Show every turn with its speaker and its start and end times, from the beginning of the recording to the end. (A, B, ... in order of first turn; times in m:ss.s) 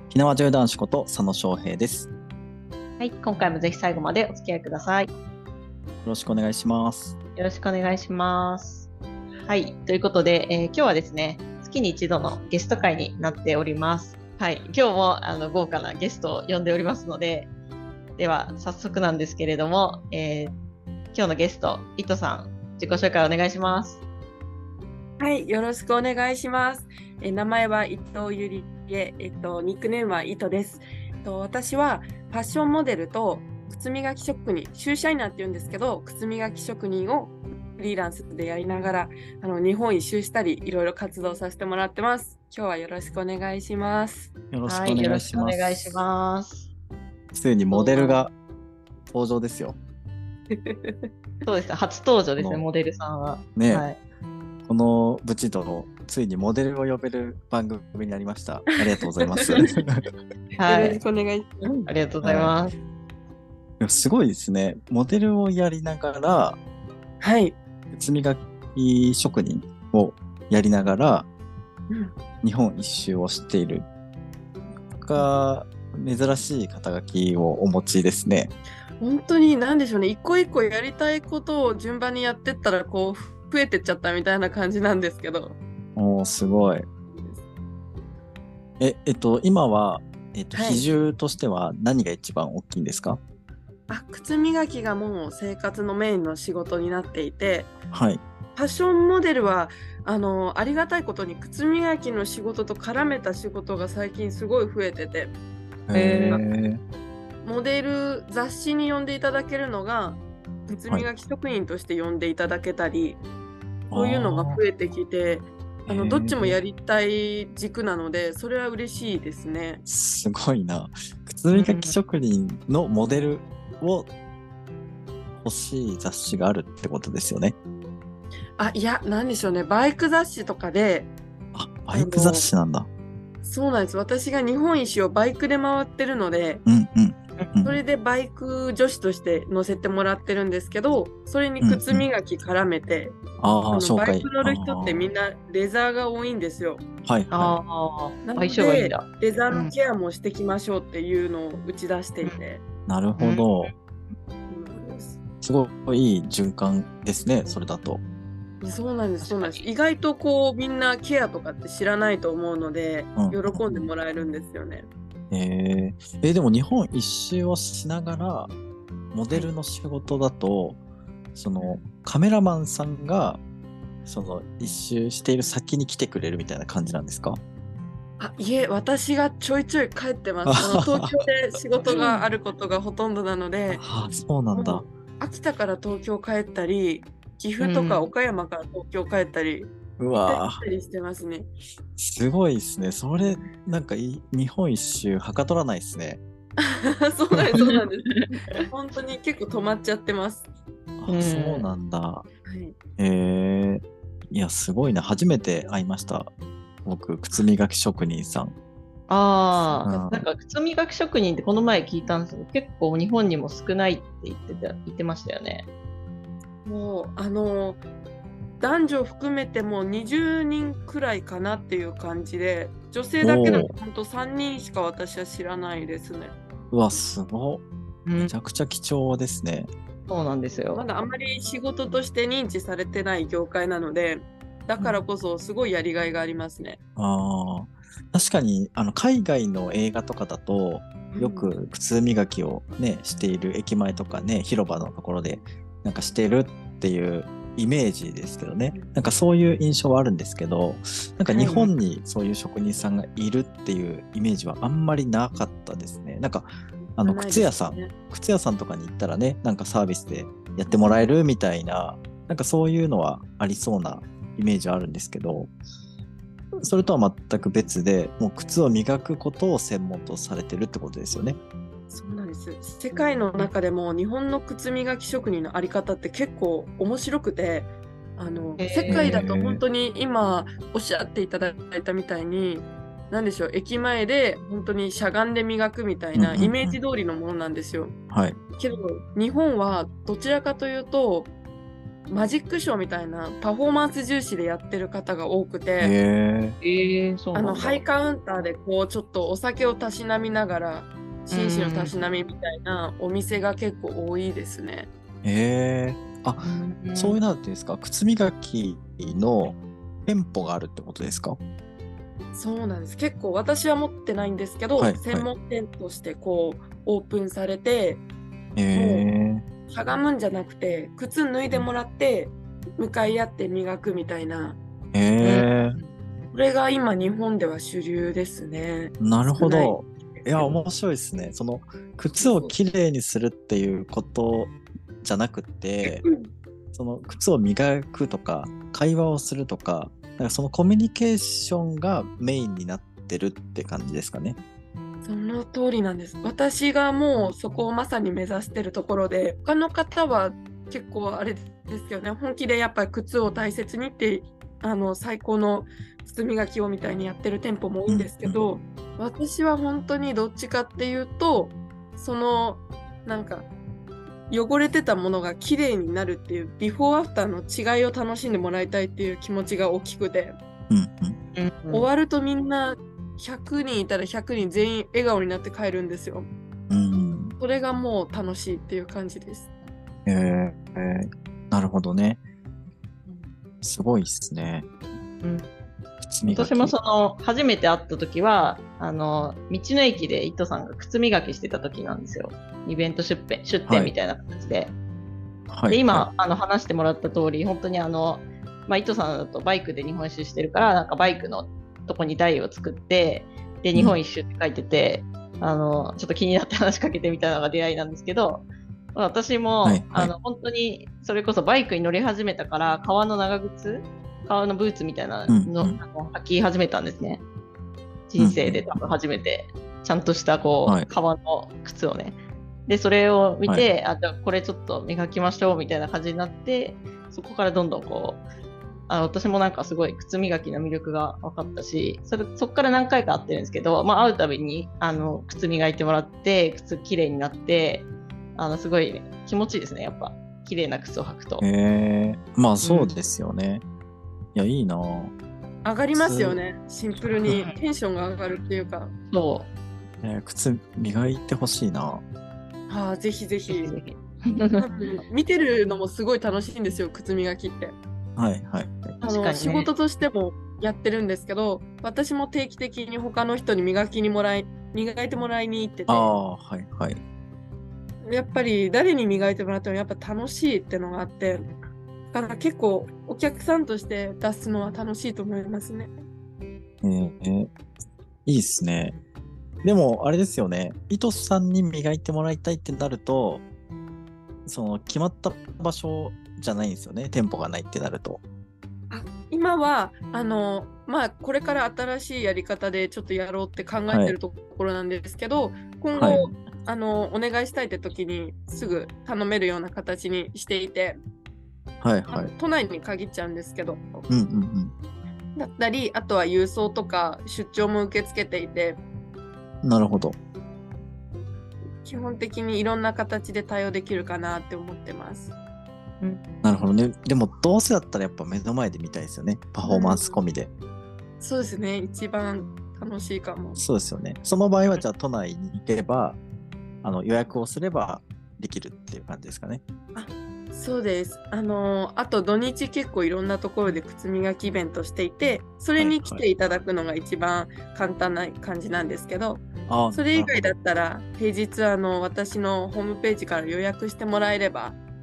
0:00.1-0:02.1 A
0:03.0-0:05.1 B
0:06.0-0:07.2 A
0:07.4-0:08.9 B
0:09.5-0:17.5 B
0:18.2-0:20.6 B
0:21.1-0:24.0 B
0:25.2-0:44.3 C
0:44.5-0:46.0 A
0:44.7-0:46.7 B
0:47.3-0:48.3 A
0:47.7-0:48.2 B
0:49.1-0:49.8 A
0:50.5-0:51.1 C
0:51.4-0:54.0 B
0:52.4-0:52.6 A
0:53.6-0:53.8 A
0:54.7-1:00.0 A
1:00.6-1:01.0 B
1:00.6-1:01.9 C
1:01.6-1:02.7 B
1:02.2-1:02.6 A
1:03.8-1:06.6 A
1:07.2-1:07.6 C
1:07.9-1:11.3 A
1:11.9-1:12.1 C
1:12.4-1:13.9 A
1:15.0-1:18.5 A
1:19.0-1:25.6 C
1:26.0-1:26.9 A
1:28.8-1:33.2 A
1:30.5-1:30.8 C
1:33.9-1:37.7 C
1:37.9-1:38.2 A
1:38.6-1:45.3 C
1:45.9-1:46.8 A
1:45.9-1:46.4 B
1:47.4-1:53.2 C
1:53.9-1:54.6 A
1:53.9-1:59.8 C
1:55.9-1:56.6 A
1:59.9-2:04.1 A
2:01.5-2:02.0 B
2:05.4-2:07.6 A
2:08.6-2:11.1 C
2:11.5-2:12.9 A
2:11.9-2:12.5 C
2:13.4-2:16.6 C
2:16.7-2:17.8 A
2:17.6-2:23.2 C
2:21.6-2:22.1 A
2:23.4-2:25.1 A
2:23.7-2:26.8 C
2:27.0-2:27.6 A
2:27.3-2:29.7 B
2:28.2-2:32.6 C
2:32.9-2:33.7 A
2:33.2-2:33.7 B
2:34.5-2:35.2 C
2:35.4-2:38.0 A
2:38.6-2:44.9 C
2:39.2-2:39.7 B
2:43.2-2:43.9 A
2:45.3-2:48.5 A
2:49.1-2:50.8 A
2:51.4-2:53.4 A
2:54.0-2:57.4 A
2:58.2-3:03.8 C
3:00.5-3:01.2 A
3:01.9-3:02.2 B
3:03.7-3:04.8 A
3:04.5-3:09.7 C
3:07.6-3:08.1 B
3:10.0-3:10.6 A
3:10.3-3:11.5 C
3:12.0-3:16.2 A
3:16.6-3:20.4 C
3:17.6-3:18.4 B
3:21.0-3:22.2 A
3:21.1-3:21.7 B
3:22.4-3:22.8 C
3:23.0-3:26.3 A
3:26.8-3:28.6 A
3:29.1-3:35.7 B
3:29.8-3:30.3 A
3:36.6-3:37.8 C
3:38.6-3:46.3 C
3:43.2-3:43.7 A
3:46.7-3:47.6 A
3:48.1-3:48.3 B
3:48.2-3:49.7 A
3:50.1-3:50.8 B
3:50.7-3:56.8 C
3:57.0-4:25.5 A
4:01.1-4:01.5 C
4:11.4-4:11.7 B
4:17.0-4:17.9 C
4:26.6-4:31.4 A
4:31.9-4:47.9 C
4:38.6-4:39.2 B
4:38.9-4:39.6 A
4:46.2-4:46.8 A
4:48.1-4:48.4 A
4:48.6-4:51.3 C
4:52.1-4:56.0 C
4:55.8-4:56.6 A
4:56.6-4:57.8 B
4:57.3-5:04.9 C
5:01.3-5:02.0 B
5:05.2-5:11.4 A
5:06.4-5:07.2 B
5:12.3-5:18.0 C
5:14.8-5:15.3 A
5:18.6-5:19.4 A
5:18.7-5:19.1 C
5:19.7-5:24.6 C
5:24.9-5:25.8 A
5:25.2-5:26.0 B
5:26.3-5:30.6 C
5:29.0-5:36.0 A
5:32.2-5:32.5 C
5:35.9-5:36.3 C
5:36.7-5:44.4 A
5:45.0-6:03.5 C
5:57.9-5:58.5 A
6:04.3-6:10.4 C
6:10.7-6:11.2 A
6:11.4-6:11.9 B
6:11.7-6:16.3 C
6:16.7-6:17.4 A
6:17.4-6:19.5 C
6:20.1-6:22.2 A
6:23.6-6:24.7 A
6:26.0-6:26.7 A
6:26.3-6:34.8 B
6:33.7-6:33.9 A
6:35.5-6:36.1 A
6:35.7-6:57.2 B
6:49.6-6:50.1 A
6:55.3-6:55.8 A
6:58.1-7:08.2 B
6:58.2-6:58.6 A
7:08.9-7:21.5 B
7:21.4-7:23.6 A
7:22.6-7:23.0 B
7:24.4-7:25.1 A
7:25.6-7:28.9 C
7:25.9-7:26.4 A
7:27.2-7:27.5 B
7:29.1-7:29.5 B
7:30.0-7:32.0 A
7:32.7-7:33.8 C
7:33.5-7:34.7 B
7:34.6-7:37.8 C
7:38.2-7:39.0 A
7:39.0-7:39.7 B
7:39.0-7:46.2 C
7:45.9-7:47.0 A
7:48.0-7:51.5 C
7:52.1-7:55.9 C
7:56.8-7:57.5 A
7:58.3-7:59.0 A
7:59.6-8:03.4 A
8:04.5-8:08.2 A
8:08.9-8:21.0 C
8:13.9-8:14.2 A
8:15.9-8:16.3 A
8:21.8-8:22.3 A
8:22.1-8:24.1 C
8:24.1-8:24.7 A
8:25.4-8:28.8 C
8:29.6-8:30.2 A
8:31.8-8:35.3 C
8:36.4-8:40.5 A
8:39.7-8:40.2 C
8:41.2-8:43.6 C
8:43.6-8:46.2 A
8:46.8-8:49.6 A
8:49.9-9:04.8 C
8:55.8-8:56.2 A
8:59.7-9:00.6 A